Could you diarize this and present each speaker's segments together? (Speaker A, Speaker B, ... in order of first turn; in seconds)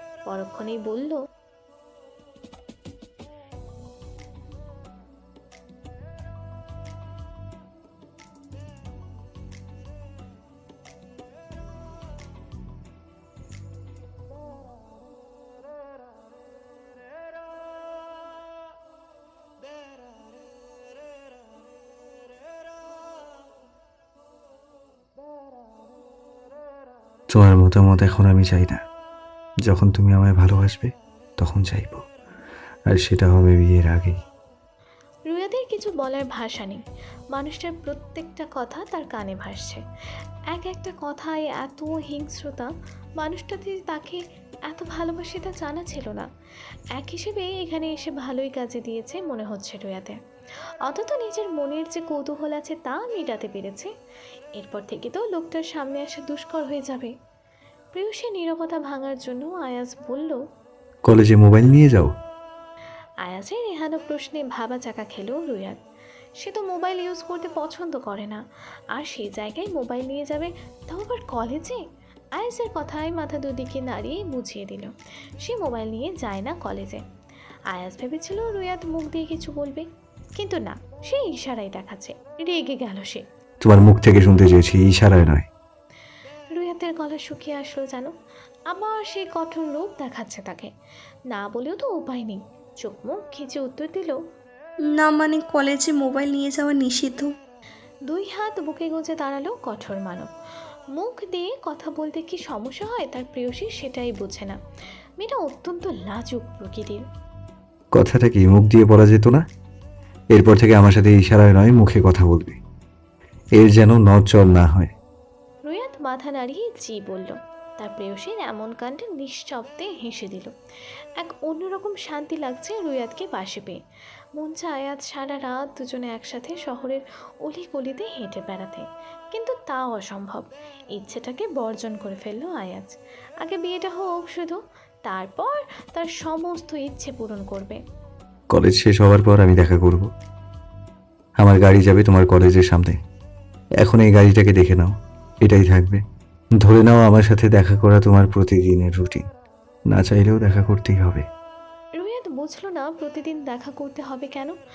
Speaker A: 0.3-1.2, 35.3-36.8, 37.3-39.8, 40.5-46.3, 46.9-50.2, 50.9-53.9, 54.6-57.1, 57.9-60.4, 63.2-65.8, 66.4-68.4, 68.9-71.8, 72.4-77.0, 77.7-83.2, 86.5-88.1, 88.7-90.7, 91.3-94.2, 98.1-100.3, 100.9-104.6, 105.2-107.0, 115.7-120.5, 121.2-123.8, 124.4-137.8, 152.0-154.6
Speaker B: 27.3-28.8, 29.6-32.0, 32.9-34.2, 61.1-62.1, 83.6-85.5, 107.9-109.4, 110.3-112.6, 113.6-114.9, 138.5-140.1, 141.4-143.0, 143.8-146.0, 146.6-149.3, 149.9-151.2
Speaker C: 94.8-97.3